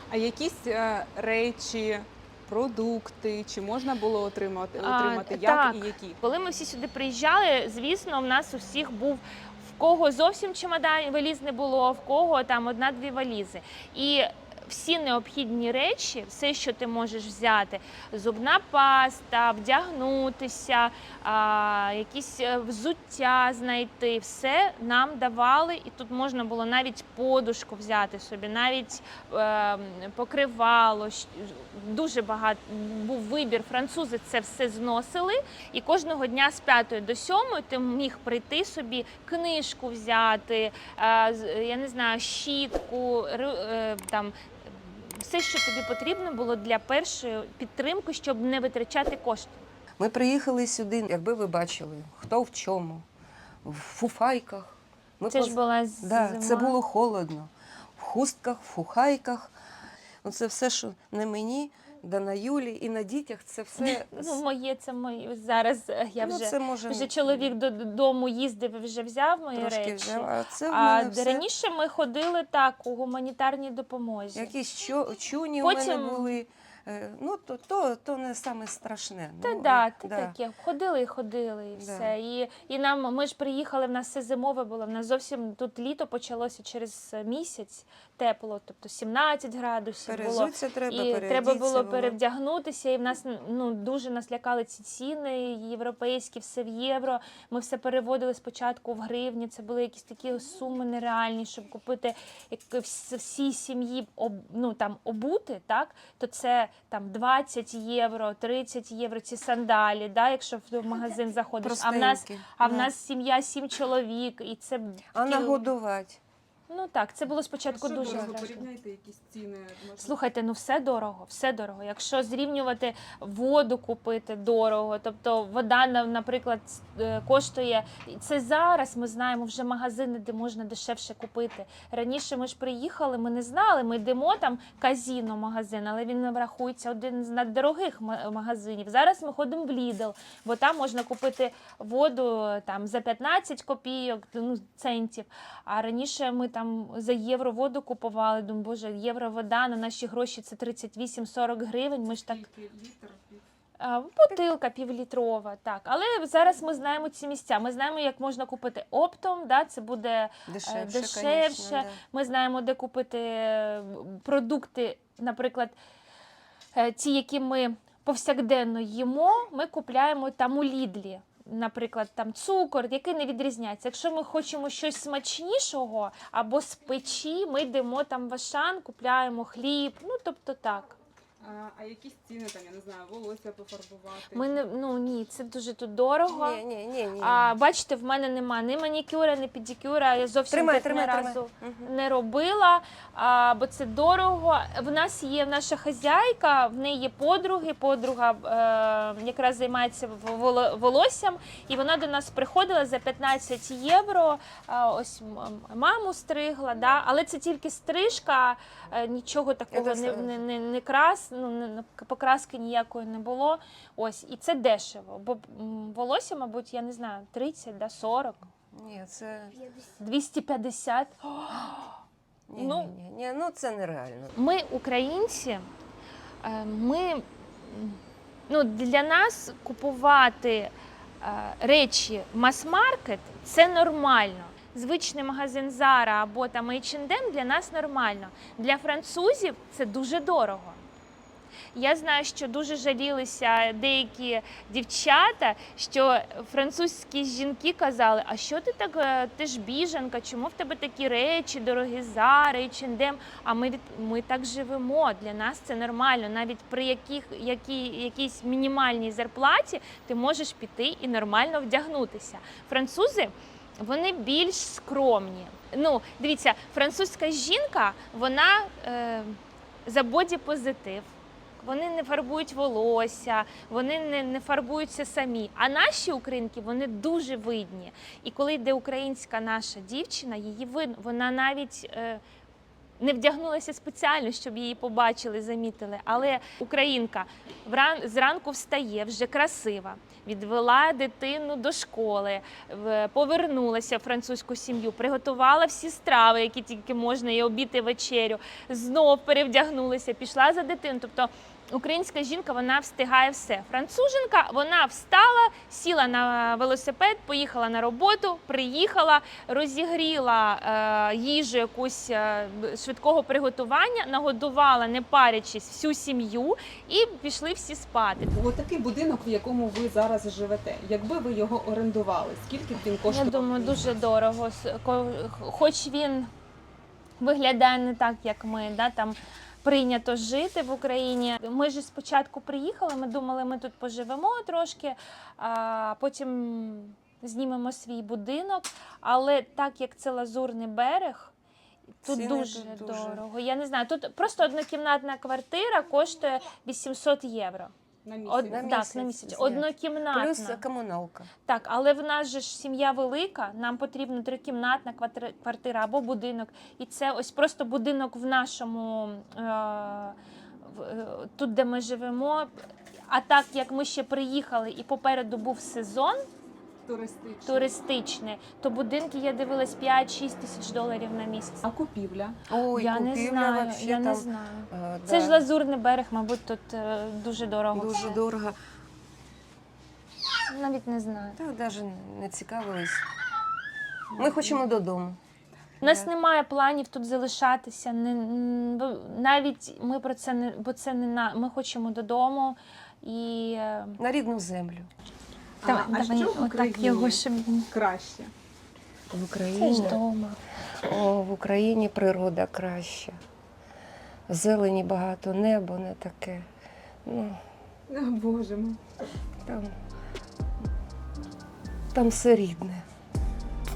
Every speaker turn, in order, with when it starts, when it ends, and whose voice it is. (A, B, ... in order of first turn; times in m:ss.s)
0:00.1-0:06.2 A
0:04.8-0:49.6 B
0:50.0-0:53.0 C
0:53.6-0:59.5 C
0:55.3-0:56.8 B
1:00.2-1:04.4 C
1:03.8-1:14.5 B
1:06.2-1:07.5 C
1:09.5-1:11.4 C
1:14.3-1:20.4 C
1:15.6-1:16.4 B
1:19.4-1:55.6 B
1:21.8-1:22.1 C
1:30.1-1:32.2 C
1:51.6-1:52.9 C
1:55.1-1:56.2 C
1:56.7-1:58.7 B
1:57.7-2:00.2 A
2:00.0-2:32.5 B
2:32.1-2:33.4 A
2:33.8-2:45.8 B
2:40.5-2:42.0 C
2:46.7-3:01.0 B
3:01.4-3:04.6 A
3:04.3-3:06.6 B
3:06.3-3:07.5 C
3:07.2-3:38.5 B
3:10.5-3:11.9 C
3:29.7-3:30.4 C
3:38.7-3:39.6 C
3:40.0-3:41.9 B
3:42.5-3:44.3 C
3:42.6-3:42.9 B
3:44.4-3:45.7 B
3:46.4-4:00.8 B
4:01.7-4:42.2 B
4:43.0-5:18.3 B
5:18.3-5:23.9 A
5:23.1-5:26.3 B
5:27.2-5:41.3 B
5:42.0-5:47.7 B
5:42.0-5:43.2 C
5:48.0-5:48.8 A
5:48.2-5:50.6 B
5:48.5-5:51.3 C
5:51.4-6:02.5 B
6:03.1-6:06.2 B
6:06.8-6:07.8 A
6:07.4-6:11.6 B
6:11.6-6:12.4 A
6:12.5-6:15.4 C
6:12.7-6:18.2 B
6:17.7-6:18.6 C
6:20.5-6:21.4 B
6:21.4-6:23.0 C
6:24.2-6:25.2 C
6:25.8-6:34.0 B
6:25.8-6:26.1 C
6:34.0-6:34.9 C
6:35.6-6:37.7 B
6:35.6-6:38.3 A
6:39.1-6:40.0 C
6:39.6-6:40.4 B
6:40.8-6:43.2 C
6:44.3-6:46.4 C
6:47.0-6:47.4 C
6:47.9-6:48.8 A
6:49.4-6:49.7 C
6:51.9-6:52.8 C